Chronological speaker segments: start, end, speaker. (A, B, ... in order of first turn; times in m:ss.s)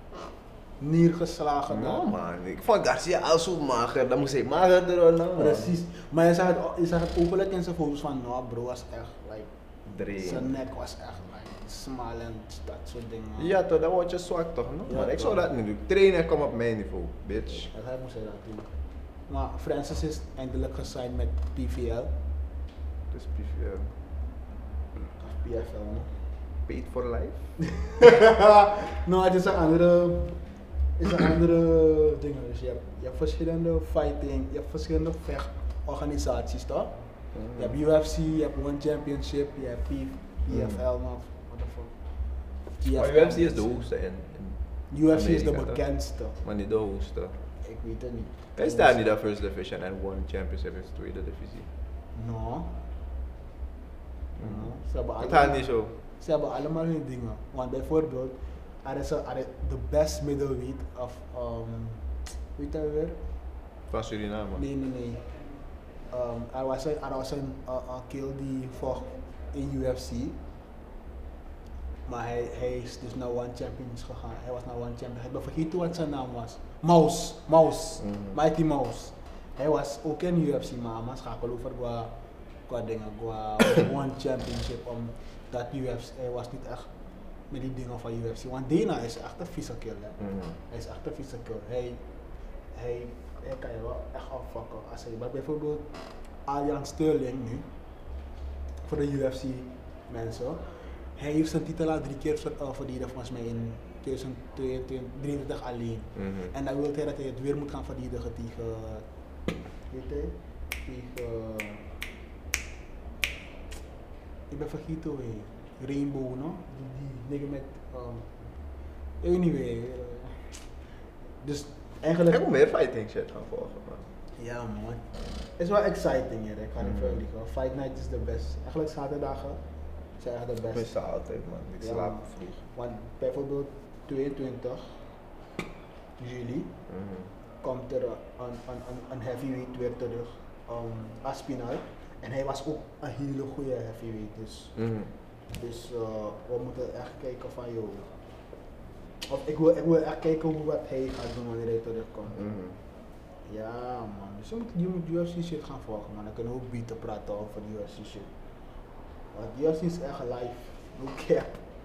0:00.8-0:02.1 A
0:01.7-0:05.7 B
0:05.4-0:09.5 A
0:09.9-0:10.5 B
0:10.2-0:13.6 A
0:13.4-0:17.7 B
0:14.9-0:15.5 A
0:17.4-0:18.7 A
0:19.3-0:22.1 A
0:23.1-0:23.9 B
0:25.2-0:26.1 A
0:26.7-0:27.4 B
0:27.6-0:30.4 A
0:31.0-0:36.9 A
0:37.4-0:37.7 B
0:37.6-0:41.9 A
0:42.8-0:43.9 A
0:42.8-0:44.6 B
0:44.9-0:46.4 A
0:45.1-0:45.8 B
0:46.4-0:47.4 B
0:47.6-0:49.0 A
0:48.6-0:51.7 B
0:52.1-0:52.8 A
0:54.4-0:55.9 B
0:54.4-0:55.6 A
0:56.2-1:02.0 A
1:02.6-1:03.2 A
1:03.9-1:04.6 B
1:04.6-1:05.2 A
1:06.1-1:10.4 A
1:12.1-1:22.1 A
1:18.0-1:18.4 B
1:22.7-1:26.9 A
1:27.5-1:30.2 A
1:30.2-1:30.5 B
1:30.7-1:32.0 A
1:32.7-1:35.9 A
1:36.5-1:37.7 A
1:38.8-1:40.6 A
1:41.2-1:49.1 A
1:46.2-1:46.5 B
1:49.9-1:51.9 A
1:54.5-1:58.3 A
1:59.2-2:00.6 A
2:01.4-2:02.5 A
2:02.3-2:04.1 B
2:04.4-2:09.6 A
2:06.8-2:07.2 B
2:10.2-2:10.9 A
2:10.7-2:12.6 B
2:11.8-2:15.0 A
2:16.2-2:16.7 A
2:16.9-2:17.3 B
2:17.6-2:24.7 A
2:24.8-2:25.1 B
2:25.5-2:28.1 A
2:29.3-2:32.4 A
2:32.3-2:32.8 B
2:33.5-2:38.3 A
2:39.3-2:41.6 A